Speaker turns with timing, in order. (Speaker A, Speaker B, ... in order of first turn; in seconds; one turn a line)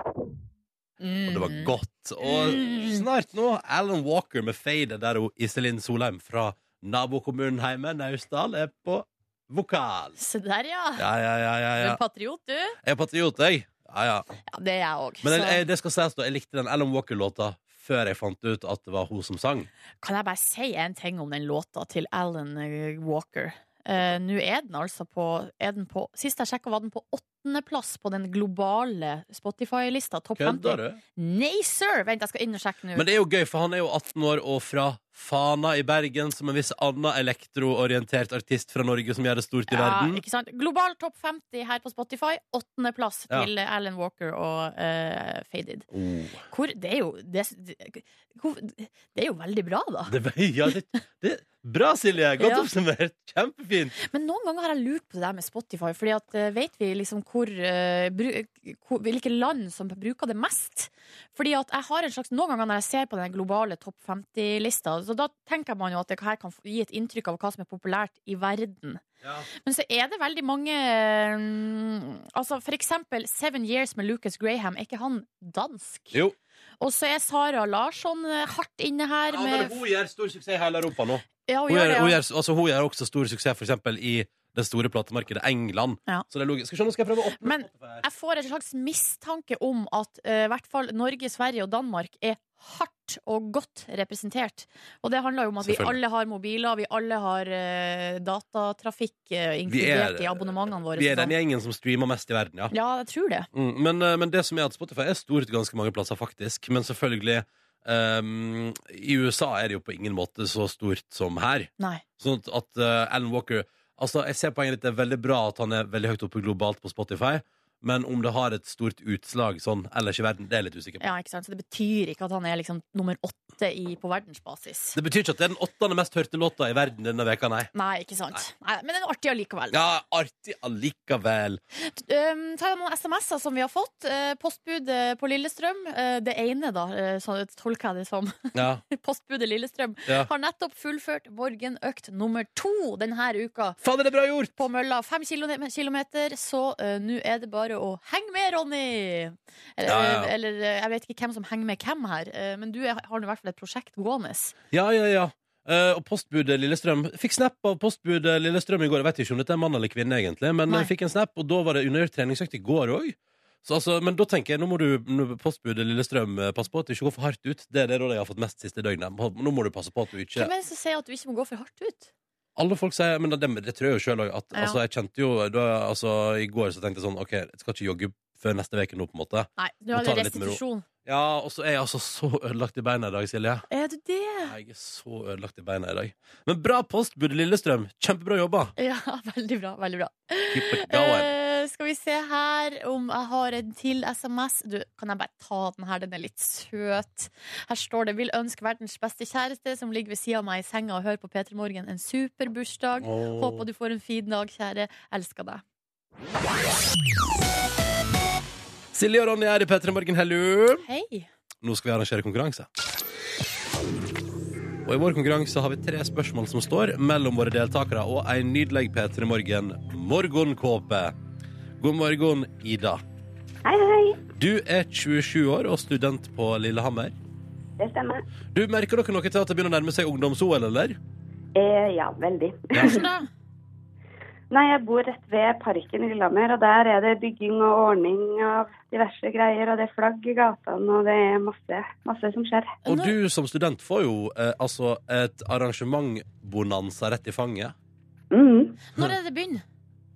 Speaker A: 1.0-3.0
Speaker B: 1.2-10.2
Speaker A: 10.2-11.0
Speaker B: 11.0-12.0
Speaker A: 11.8-12.8
Speaker B: 12.8-14.3
Speaker A: 14.5-15.6
Speaker B: 15.2-19.7
Speaker A: 20.0-33.1
Speaker B: 30.4-31.0
Speaker B: 32.9-40.2
Speaker A: 39.7-45.9
Speaker B: 45.9-46.4
Speaker A: 46.5-50.1
Speaker B: 50.1-53.9
Speaker A: 52.4-52.7
Speaker A: 54.0-69.0
Speaker B: 69.2-69.5
Speaker A: 69.6-76.2
Speaker A: 76.8-79.8
Speaker B: 79.3-88.0
Speaker A: 81.5-82.2
Speaker A: 87.4-101.3
Speaker B: 95.6-96.0
Speaker B: 99.7-102.7
Speaker A: 102.7-103.5
Speaker B: 103.5-121.0
Speaker A: 121.0-125.0
Speaker B: 125.0-127.7
Speaker A: 127.7-129.8
Speaker B: 129.7-131.6
Speaker A: 131.7-143.8
Speaker B: 138.5-138.8
Speaker B: 143.8-144.5
Speaker A: 144.6-154.5
Speaker B: 149.8-150.3
Speaker B: 154.7-170.5
Speaker A: 170.3-172.1
Speaker B: 172.6-183.7
Speaker A: 174.5-174.8
Speaker A: 179.6-180.8
Speaker A: 183.7-184.5
Speaker B: 184.4-188.7
Speaker A: 188.8-205.6
Speaker B: 190.5-191.3
Speaker B: 203.0-203.7
Speaker B: 208.9-210.8
Speaker A: 210.8-211.3
Speaker B: 211.6-212.7
Speaker B: 214.8-221.2
Speaker B: 221.8-223.0
Speaker C: 223.6-224.2
Speaker B: 224.3-227.1
Speaker C: 227.8-228.2
Speaker B: 228.5-231.0
Speaker C: 231.6-233.0
Speaker B: 232.7-233.0
Speaker A: 232.8-233.3
Speaker C: 234.5-242.7
Speaker A: 242.8-243.1
Speaker B: 242.8-247.7
Speaker C: 248.3-248.8
Speaker A: 248.8-249.6